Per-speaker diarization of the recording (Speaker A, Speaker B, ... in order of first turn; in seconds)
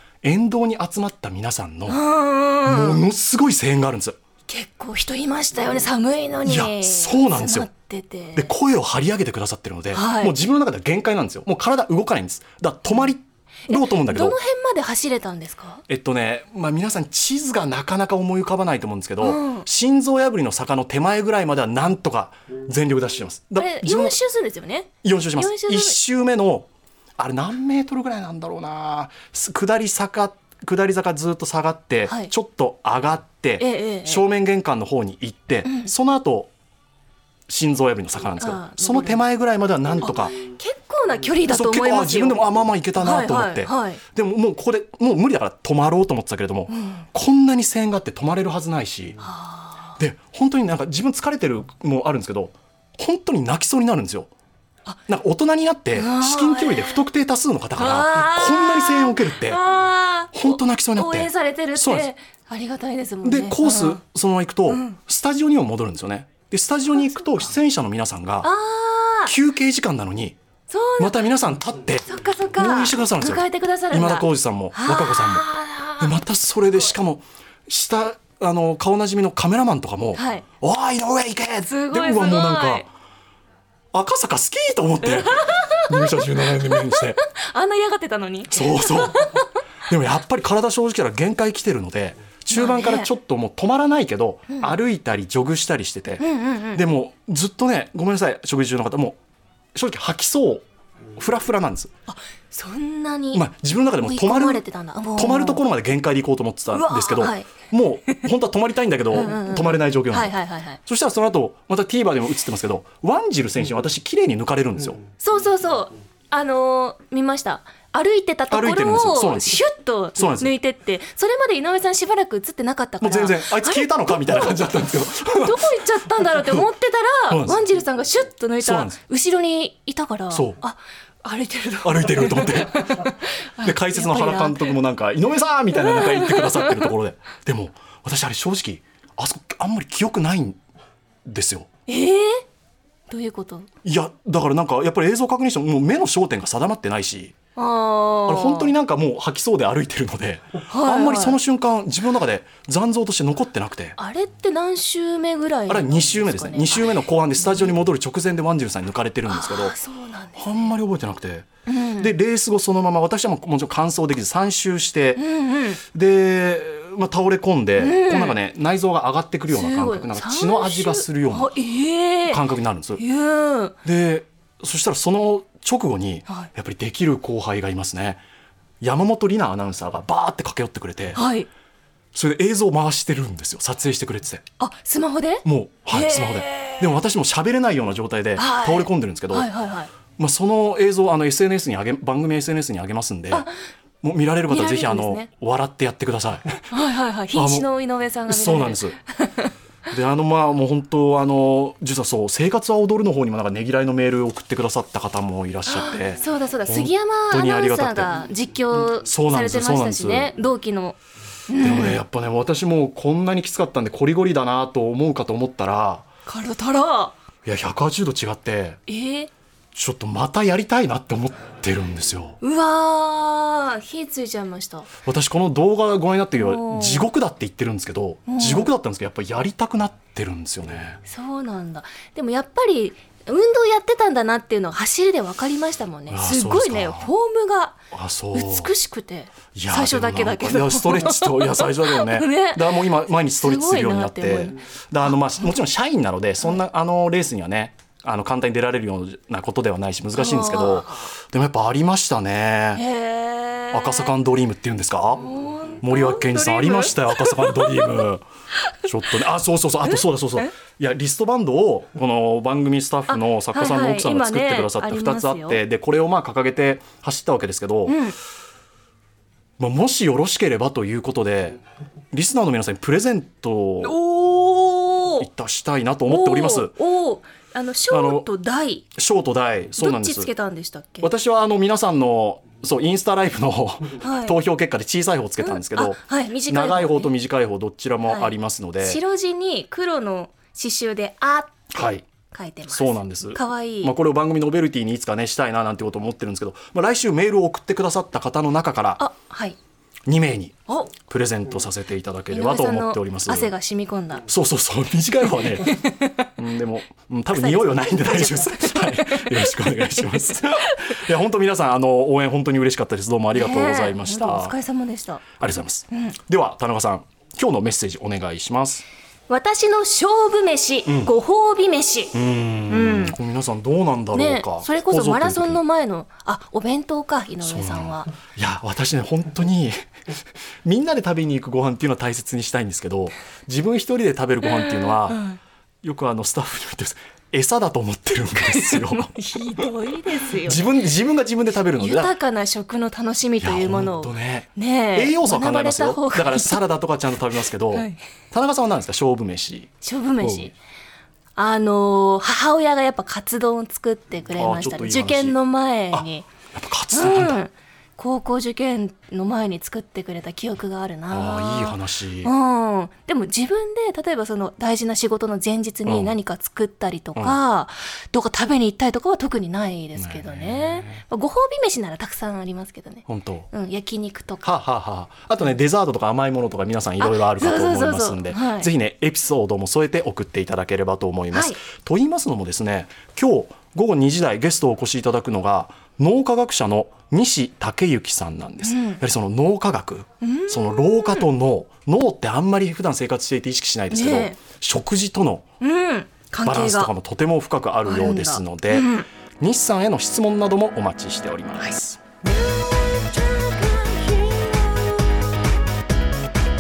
Speaker A: 0.2-2.0, 2.6-4.2, 6.4-7.7, 8.3-14.4, 15.9-24.2, 25.0-36.5, 37.5-40.4, 41.5-49.2, 50.0-54.3, 55.1-59.6, 60.3-62.1, 63.2-68.5, 69.3-70.4, 71.0-75.5, 76.0-82.9, 83.9-87.2, 88.5-89.4, 89.9-99.2, 99.8-100.7, 101.2-101.9, 103.3-110.3, 110.9-115.0, 118.5-119.6, 120.2-120.5, 123.0-125.8, 126.3-126.7, 127.3-127.6, 128.6-129.0, 130.3-130.6, 131.8-140.6, 141.3-141.7, 143.8-147.3, 148.3-154.0, 155.7-159.7, 160.4-161.5, 162.0-165.2, 165.9-171.5, 172.3-173.0, 173.8-178.2, 178.8-181.2, 182.1-184.4, 185.4-189.5, 190.2-193.5, 194.0-196.6, 197.3-197.7, 198.3-199.0, 199.9-208.1, 209.0-210.3, 211.6-216.1, 217.4-218.8, 219.7-222.4, 225.1-231.0, 236.1-237.1, 237.9-238.7, 239.6-252.8, 253.7-255.2, 255.8-258.2, 258.9-268.0, 269.6-271.6, 272.1-274.0, 275.2-276.8, 277.9-278.3, 278.9-280.3, 281.0-289.0, 291.7-292.1, 292.7-299.0, 300.1-303.5, 304.3-305.8, 306.4-314.6, 315.4-318.9, 320.9-321.1, 322.1-325.6, 327.4-329.8, 330.6-335.2, 335.8-339.1, 340.4-342.1, 343.4-350.5, 354.3-355.4, 355.9-357.4, 361.1-362.3, 365.9-366.1, 369.9-370.9, 373.1-373.5, 374.4-395.4, 396.4-398.9, 399.4-402.0
Speaker B: 1.9-3.0, 4.5-8.5, 9.9-10.3, 13.7-15.8, 19.2-19.7, 23.6-26.0, 32.1-32.3, 33.6-34.3, 35.6-35.9, 38.4-39.2, 40.0-44.0, 46.7-47.0, 49.2-50.0, 55.9-57.1, 57.8-64.0, 64.7-65.0, 66.9-67.5, 68.4-69.3, 70.7-71.3, 72.1-76.2, 80.2-80.5, 81.6-82.9, 85.0-89.5, 92.5-93.1, 94.5-94.8, 96.2-96.8, 102.1-103.5, 104.0-105.6, 106.7-107.5, 109.1-110.8, 115.2-124.6, 125.3-134.8, 135.8-136.9, 141.9-142.4, 143.1-143.7, 147.6-148.7, 150.7-151.4, 154.0-157.0, 159.3-160.7, 161.7-162.1, 165.2-165.8, 167.8-168.4, 169.5-172.4, 173.0-173.8, 181.2-181.5, 184.6-187.0, 188.3-189.9, 194.5-195.3, 196.7-199.5, 205.7-211.0, 211.5-212.0, 216.3-217.2, 218.9-219.3, 222.4-224.9, 226.4-227.1, 228.3-228.7, 231.1-237.8, 238.3-245.2, 250.2-251.1, 252.8-254.2, 255.2-259.2, 259.9-260.5, 263.1-265.6, 267.9-268.2, 273.8-275.3, 276.1-278.9, 279.8-281.1, 284.0-284.4, 285.4-287.1, 288.0-291.7, 292.2-293.9, 299.0-299.6, 300.7-300.9, 302.3-304.2, 305.4-306.3, 307.3-310.9, 313.3-315.2, 315.9-316.2, 319.3-322.2, 322.7-323.2, 324.1-328.1, 334.4-335.4, 338.4-340.7, 341.8-346.6, 347.7-348.0, 349.8-350.6, 351.4-356.3, 356.9-374.5, 377.0-378.7, 381.3-381.6, 388.6-389.0, 390.2-391.3, 393.9-394.4, 395.6-396.9, 397.8-399.1, 403.1-404.8